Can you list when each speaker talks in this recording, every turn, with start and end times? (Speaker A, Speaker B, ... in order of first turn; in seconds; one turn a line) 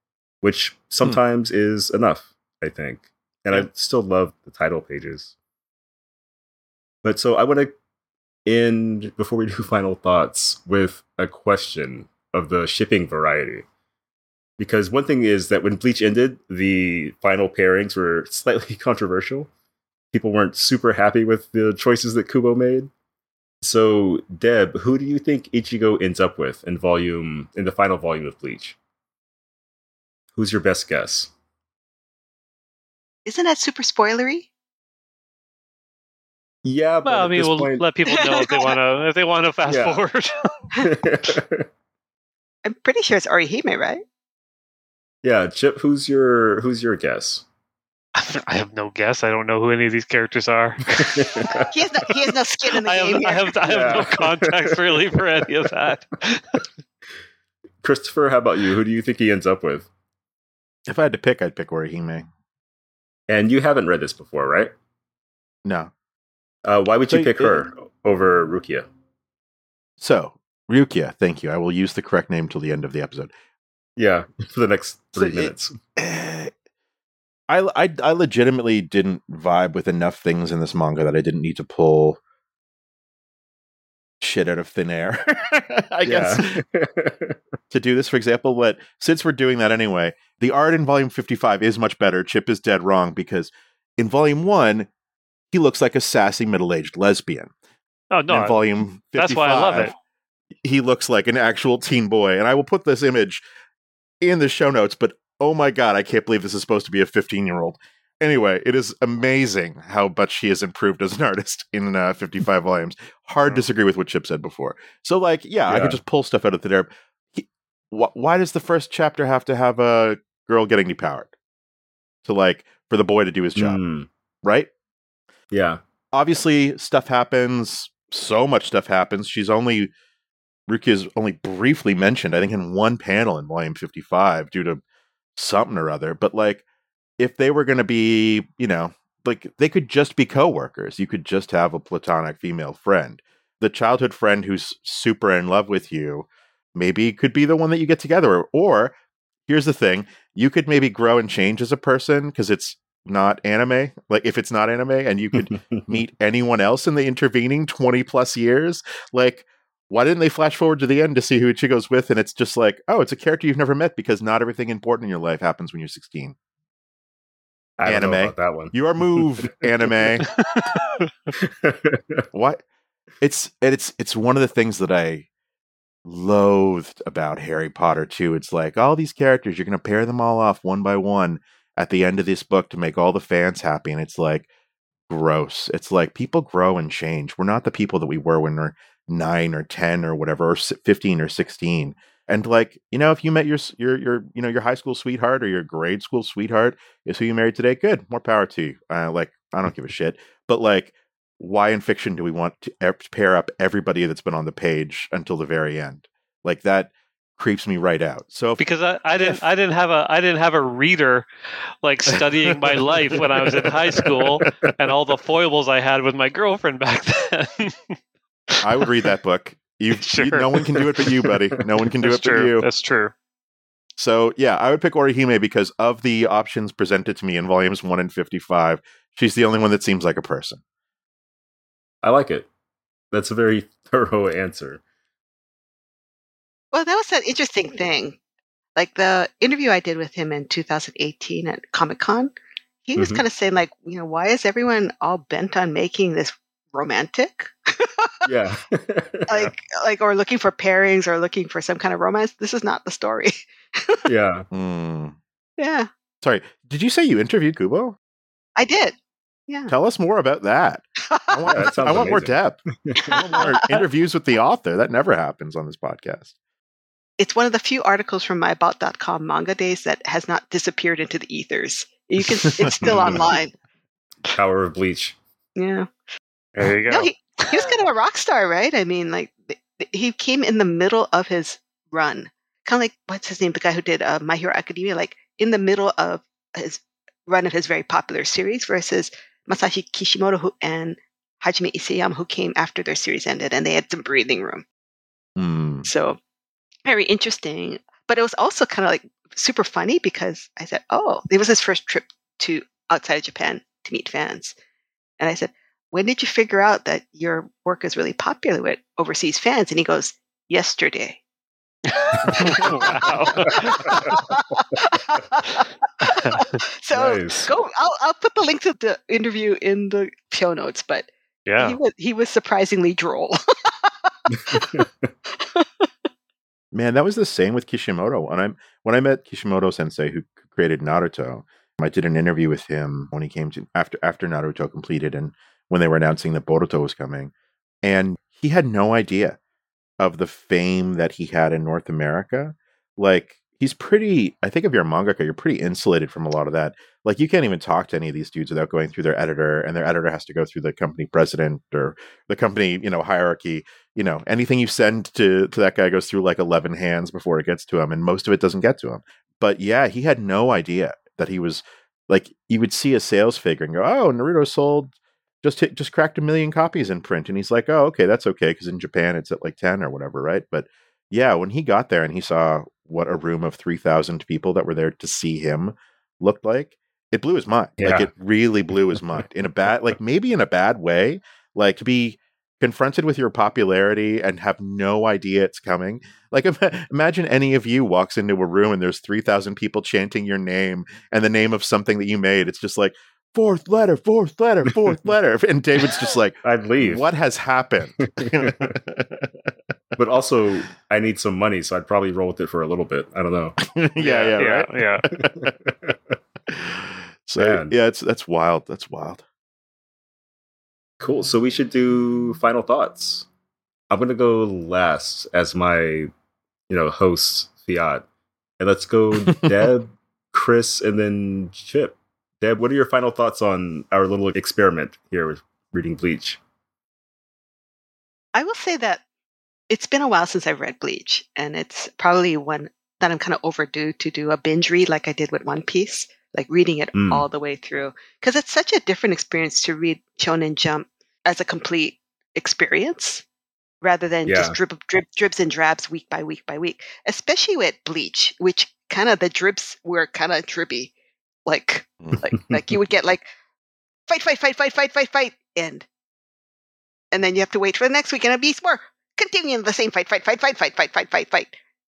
Speaker A: 0.4-5.3
Speaker A: 7.0-7.7
Speaker A: 8.5-13.7
Speaker A: 14.6-19.5
Speaker A: 20.1-22.9
Speaker A: 23.6-28.8
Speaker A: 30.4-31.3
Speaker B: 33.3-34.5
Speaker A: 36.6-37.8
Speaker C: 37.0-40.5
Speaker B: 38.1-38.8
Speaker A: 39.7-40.0
Speaker A: 40.8-41.7
Speaker B: 42.6-44.0
Speaker A: 45.2-47.5
Speaker C: 48.2-51.6
Speaker A: 50.9-51.6
Speaker B: 51.6-53.6
Speaker C: 52.8-56.6
Speaker A: 53.6-55.0
Speaker A: 57.8-59.9
Speaker D: 60.9-62.3
Speaker A: 63.3-64.7
Speaker D: 65.6-65.9
Speaker A: 66.7-68.9
Speaker D: 67.1-67.7
Speaker D: 70.0-73.3
Speaker A: 74.0-75.7
Speaker D: 75.2-76.5
Speaker D: 77.5-82.2
Speaker D: 84.2-86.6
Speaker A: 86.0-87.4
Speaker D: 87.7-94.9
Speaker D: 95.5-97.5
Speaker C: 98.1-98.6
Speaker D: 98.3-99.9
Speaker C: 99.2-99.9
Speaker D: 100.6-103.4
Speaker D: 104.2-121.3
Speaker A: 115.7-116.0
Speaker D: 122.2-123.8
Speaker A: 123.6-124.1
Speaker D: 124.4-124.7
Speaker A: 125.5-125.8
Speaker D: 126.1-129.9
Speaker D: 130.7-134.8
Speaker D: 135.4-136.7
Speaker D: 137.2-148.9
Speaker D: 149.5-166.4
Speaker A: 155.4-155.8
Speaker A: 167.8-170.1
Speaker D: 167.8-170.3
Speaker C: 170.5-170.8
Speaker A: 171.4-172.2
Speaker D: 172.3-172.6
Speaker D: 173.2-175.3
Speaker D: 176.1-184.5
Speaker D: 185.1-208.6
Speaker C: 208.6-211.3
Speaker D: 209.2-209.4
Speaker C: 211.8-218.0
Speaker D: 218.6-222.7
Speaker C: 220.0-220.5
Speaker C: 222.0-223.1
Speaker D: 224.0-230.6
Speaker A: 232.0-232.5
Speaker A: 233.1-234.8
Speaker B: 236.7-238.2
Speaker B: 238.8-242.3
Speaker B: 242.9-248.1
Speaker A: 243.0-243.2
Speaker A: 248.2-249.5
Speaker B: 249.3-254.0
Speaker A: 254.1-254.5
Speaker D: 254.5-255.2
Speaker B: 255.6-255.9
Speaker D: 256.2-258.0
Speaker B: 258.6-259.0
Speaker B: 259.5-259.7
Speaker D: 259.7-262.6
Speaker B: 261.1-261.7
Speaker A: 261.5-262.3
Speaker A: 262.9-263.2
Speaker B: 263.0-263.8
Speaker D: 263.1-266.3
Speaker B: 267.2-273.5
Speaker A: 272.8-273.2
Speaker A: 274.3-275.2
Speaker B: 275.6-275.9
Speaker C: 276.5-277.3
Speaker B: 276.9-294.7
Speaker D: 295.4-295.9
Speaker B: 295.9-296.2
Speaker B: 296.9-304.6
Speaker B: 305.2-311.2
Speaker C: 312.0-314.1
Speaker B: 312.0-324.8
Speaker A: 312.3-312.6
Speaker A: 313.5-314.1
Speaker C: 316.1-316.6
Speaker A: 316.9-317.5
Speaker C: 321.5-321.8
Speaker A: 324.3-325.1
Speaker B: 325.3-325.9
Speaker D: 326.7-337.3
Speaker D: 337.8-339.4
Speaker D: 340.0-399.5
Speaker A: 377.8-378.1
Speaker A: 396.4-397.1
Speaker A: 398.0-398.7
Speaker A: 400.0-404.4
Speaker D: 403.6-405.5
Speaker C: 404.4-405.1
Speaker A: 405.2-406.1
Speaker D: 406.5-409.2
Speaker A: 407.4-407.7
Speaker A: 411.0-413.3
Speaker A: 413.9-416.1
Speaker A: 416.7-418.1
Speaker A: 418.6-426.4
Speaker D: 419.3-419.5
Speaker B: 428.4-429.0
Speaker B: 429.7-443.2
Speaker A: 436.9-437.3
Speaker B: 443.8-450.9
Speaker A: 444.3-444.6
Speaker B: 451.5-453.3
Speaker B: 454.1-455.9
Speaker B: 457.1-461.6